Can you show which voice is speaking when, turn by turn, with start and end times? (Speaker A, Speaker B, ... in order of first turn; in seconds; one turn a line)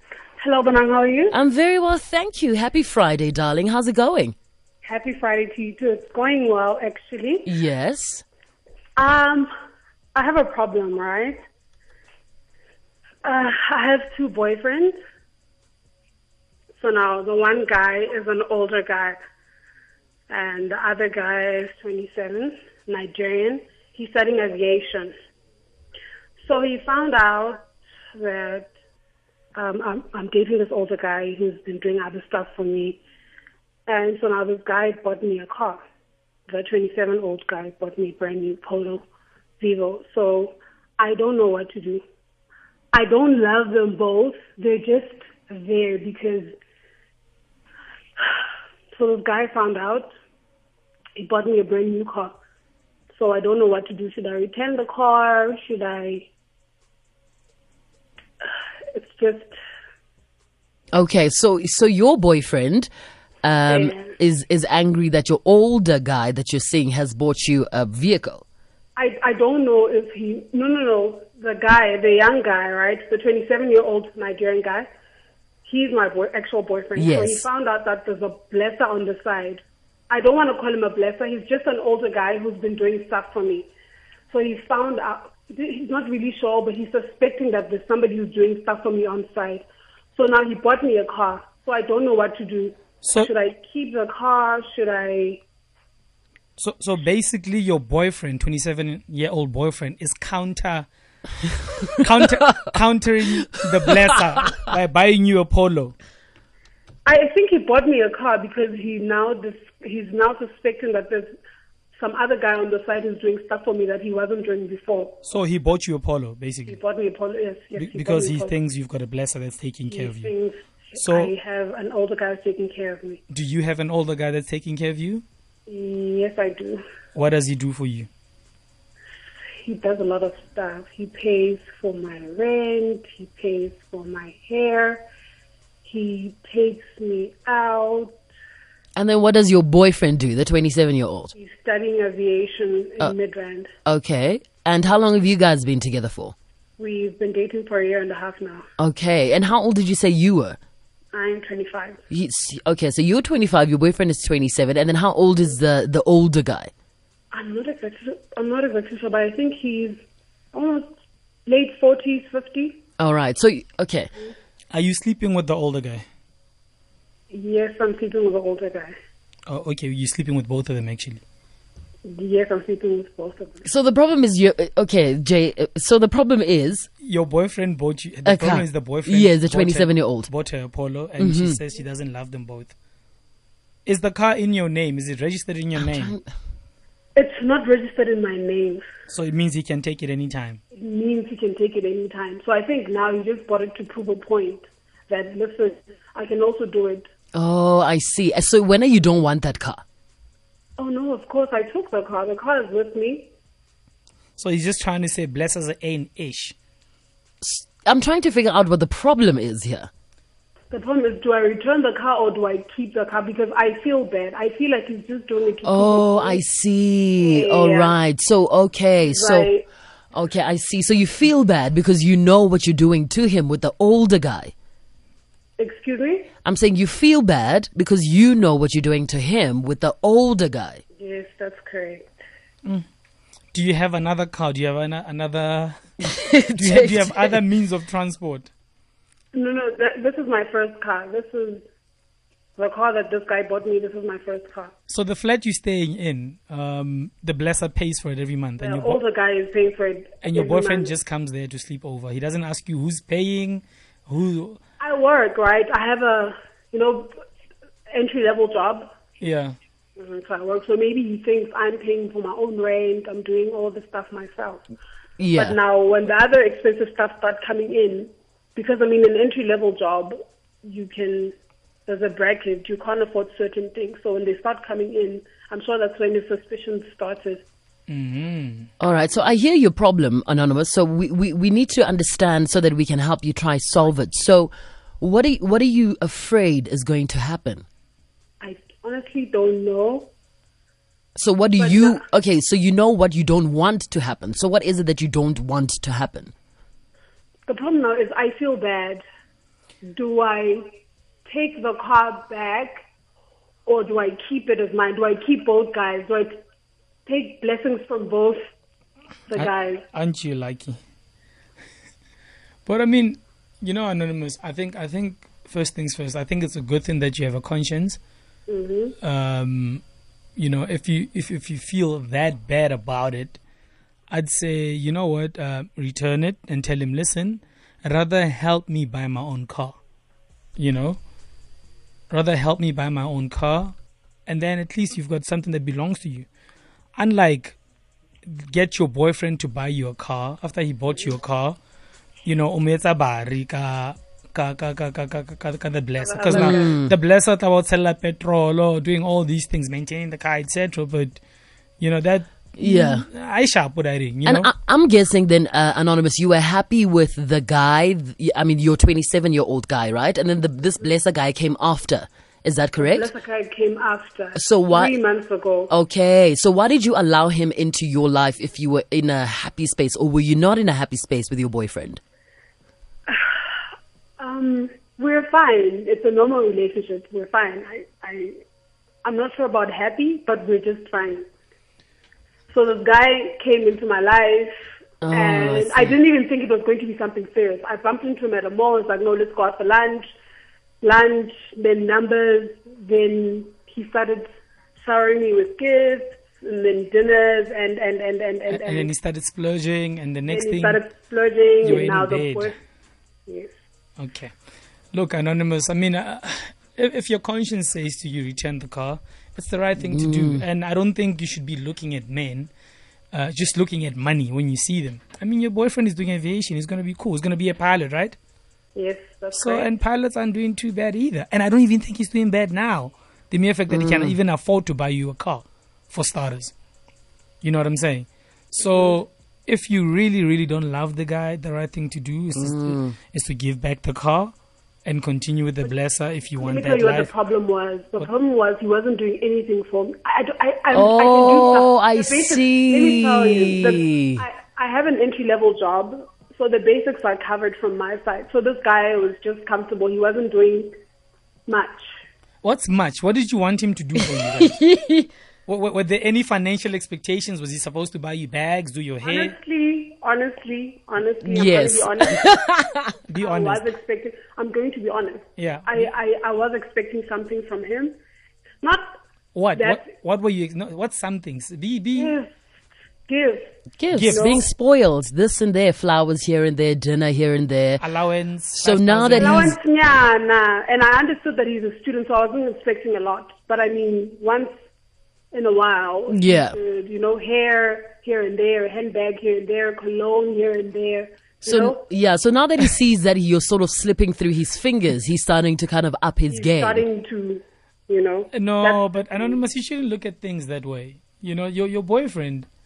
Speaker A: 0.4-1.4
Speaker B: 1.3-4.3
Speaker A: 4.8-7.5
Speaker B: 7.5-8.2
Speaker A: 9.0-9.5
Speaker A: 10.1-11.4
Speaker A: 13.2-14.9
Speaker A: 16.8-19.2
Speaker A: 20.3-25.1
Speaker A: 26.4-27.6
Speaker A: 28.1-28.7
Speaker A: 29.5-33.0
Speaker A: 33.9-35.8
Speaker A: 36.5-39.0
Speaker A: 39.6-42.0
Speaker A: 42.9-46.5
Speaker A: 48.9-50.1
Speaker A: 51.1-52.3
Speaker A: 53.1-56.3
Speaker A: 58.9-59.5
Speaker B: 60.9-62.9
Speaker B: 63.4-68.4
Speaker A: 63.7-64.1
Speaker A: 69.0-74.9
Speaker A: 75.6-83.7
Speaker B: 77.0-77.5
Speaker A: 84.3-95.4
Speaker C: 93.0-93.3
Speaker C: 96.6-100.9
Speaker C: 102.0-105.9
Speaker B: 103.3-103.9
Speaker A: 107.0-111.3
Speaker A: 112.0-115.2
Speaker C: 115.2-116.8
Speaker A: 116.7-118.5
Speaker C: 117.8-120.3
Speaker A: 119.9-123.2
Speaker C: 120.9-121.3
Speaker C: 123.3-125.2
Speaker A: 125.7-126.8
Speaker C: 127.1-128.1
Speaker A: 129.6-135.0
Speaker A: 135.8-138.2
Speaker B: 138.9-141.3
Speaker A: 141.3-143.7
Speaker B: 143.8-146.3
Speaker A: 146.8-148.6
Speaker B: 148.8-150.6
Speaker A: 151.1-152.0
Speaker B: 152.1-156.7
Speaker A: 157.3-160.0
Speaker A: 160.5-160.9
Speaker A: 161.4-162.8
Speaker B: 163.0-164.1
Speaker C: 164.7-166.0
Speaker A: 167.3-168.9
Speaker C: 169.5-171.2
Speaker A: 172.1-173.7
Speaker B: 173.6-176.9
Speaker C: 177.0-182.7
Speaker B: 178.2-180.3
Speaker B: 181.2-181.6
Speaker C: 183.8-186.1
Speaker B: 185.8-186.2
Speaker A: 187.2-188.8
Speaker C: 189.1-190.6
Speaker A: 190.7-197.1
Speaker B: 197.3-199.8
Speaker A: 200.8-203.3
Speaker C: 204.4-206.5
Speaker B: 207.4-209.9
Speaker A: 210.7-216.4
Speaker B: 215.6-219.5
Speaker A: 217.2-217.9
Speaker A: 219.1-219.7
Speaker B: 220.1-224.5
Speaker A: 225.6-226.3
Speaker B: 226.4-230.8
Speaker A: 231.0-232.1
Speaker C: 233.5-235.8
Speaker B: 236.0-237.3
Speaker C: 236.6-238.5
Speaker A: 239.3-241.6
Speaker A: 242.6-244.7
Speaker C: 244.9-249.0
Speaker A: 248.6-250.9
Speaker C: 250.2-254.6
Speaker A: 254.8-257.1
Speaker A: 257.9-258.9
Speaker C: 259.2-259.6
Speaker A: 260.0-264.6
Speaker B: 265.2-265.6
Speaker A: 265.4-271.3
Speaker A: 271.9-277.4
Speaker C: 277.9-278.7
Speaker B: 278.8-287.6
Speaker A: 288.4-290.1
Speaker B: 291.2-296.3
Speaker A: 291.6-292.0
Speaker A: 297.5-299.0
Speaker A: 299.8-300.7
Speaker A: 301.2-302.8
Speaker A: 303.6-306.4
Speaker A: 307.1-308.4
Speaker A: 309.3-309.8
Speaker C: 309.3-310.8
Speaker C: 312.6-318.0
Speaker A: 318.5-318.9
Speaker C: 319.0-319.8
Speaker C: 320.4-323.4
Speaker C: 324.1-329.8
Speaker C: 330.6-331.0
Speaker C: 332.1-333.7
Speaker C: 334.3-336.3
Speaker C: 336.9-337.6
Speaker C: 338.2-341.6
Speaker C: 342.2-351.2
Speaker A: 346.0-346.8
Speaker B: 346.3-346.9
Speaker C: 351.8-354.5
Speaker B: 352.6-353.0
Speaker B: 354.2-363.1
Speaker A: 362.8-365.7
Speaker B: 364.3-364.9
Speaker B: 365.7-372.0
Speaker A: 374.2-378.4
Speaker A: 379.0-381.2
Speaker A: 382.5-384.5
Speaker B: 385.0-385.9
Speaker A: 385.1-390.0
Speaker A: 390.8-398.9
Speaker C: 398.5-400.8
Speaker A: 400.3-402.6
Speaker C: 401.6-402.5
Speaker A: 403.3-403.5
Speaker C: 404.0-404.3
Speaker C: 404.9-412.5
Speaker B: 409.9-410.4
Speaker C: 413.1-418.1
Speaker A: 418.7-419.7
Speaker C: 419.3-426.5
Speaker B: 423.7-424.1
Speaker C: 427.4-434.3
Speaker A: 428.6-429.0
Speaker B: 432.3-432.9
Speaker C: 434.8-437.1
Speaker A: 436.4-450.7
Speaker B: 440.7-444.2
Speaker A: 451.5-451.9
Speaker C: 452.4-454.5
Speaker B: 454.2-455.1
Speaker C: 455.5-459.3
Speaker A: 459.0-462.2
Speaker B: 461.2-462.9
Speaker C: 463.1-463.7
Speaker A: 463.2-467.9
Speaker C: 465.4-465.9
Speaker A: 468.6-468.9
Speaker C: 469.3-472.1
Speaker A: 469.6-469.8
Speaker A: 471.9-472.3
Speaker A: 473.1-473.5
Speaker B: 473.8-477.8
Speaker C: 473.9-474.2
Speaker A: 474.0-474.5
Speaker C: 477.8-479.6
Speaker B: 478.5-479.5
Speaker A: 479.1-484.5
Speaker A: 485.3-491.8
Speaker B: 486.1-486.6
Speaker B: 491.4-496.8
Speaker A: 496.3-499.4
Speaker C: 498.3-502.5